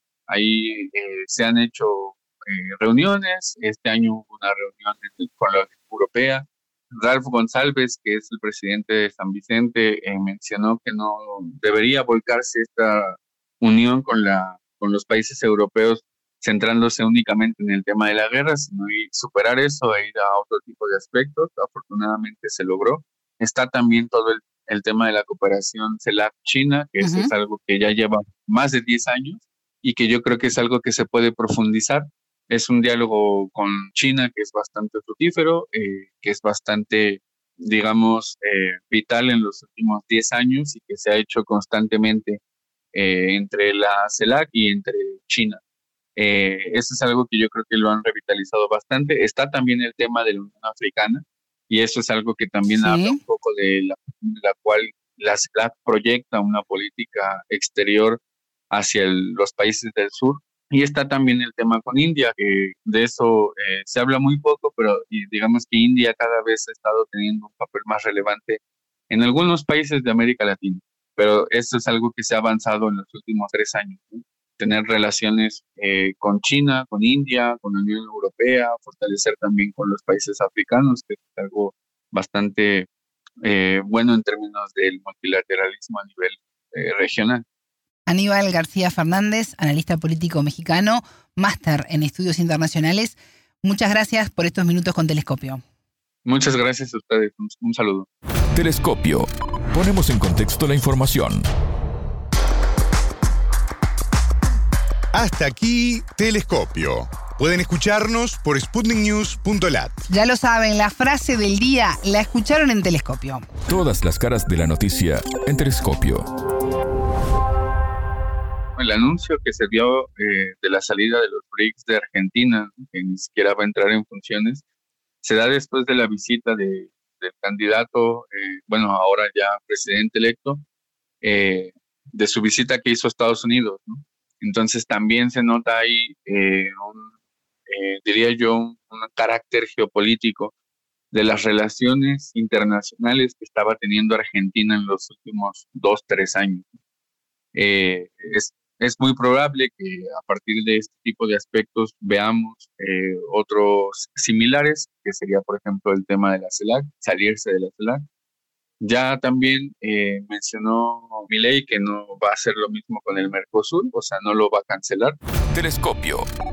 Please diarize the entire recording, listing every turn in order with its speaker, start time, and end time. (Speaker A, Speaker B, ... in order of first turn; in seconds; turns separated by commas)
Speaker A: 0.3-42.4, Speaker B: 27.0-27.3, Speaker A: 42.9-45.6, Speaker A: 46.1-58.2, Speaker B: 52.7-53.2, Speaker A: 58.7-82.9, Speaker A: 83.4-87.4, Speaker B: 88.1-95.6, Speaker A: 96.2-98.1, Speaker C: 98.5-101.4, Speaker D: 105.1-110.0, Speaker B: 110.1-113.4, Speaker C: 113.7-116.2, Speaker A: 118.8-124.6, Speaker A: 125.2-130.6, Speaker A: 131.2-137.1, Speaker A: 137.7-140.5, Speaker A: 141.1-146.7, Speaker A: 147.5-158.0, Speaker A: 158.8-165.2, Speaker C: 165.5-166.3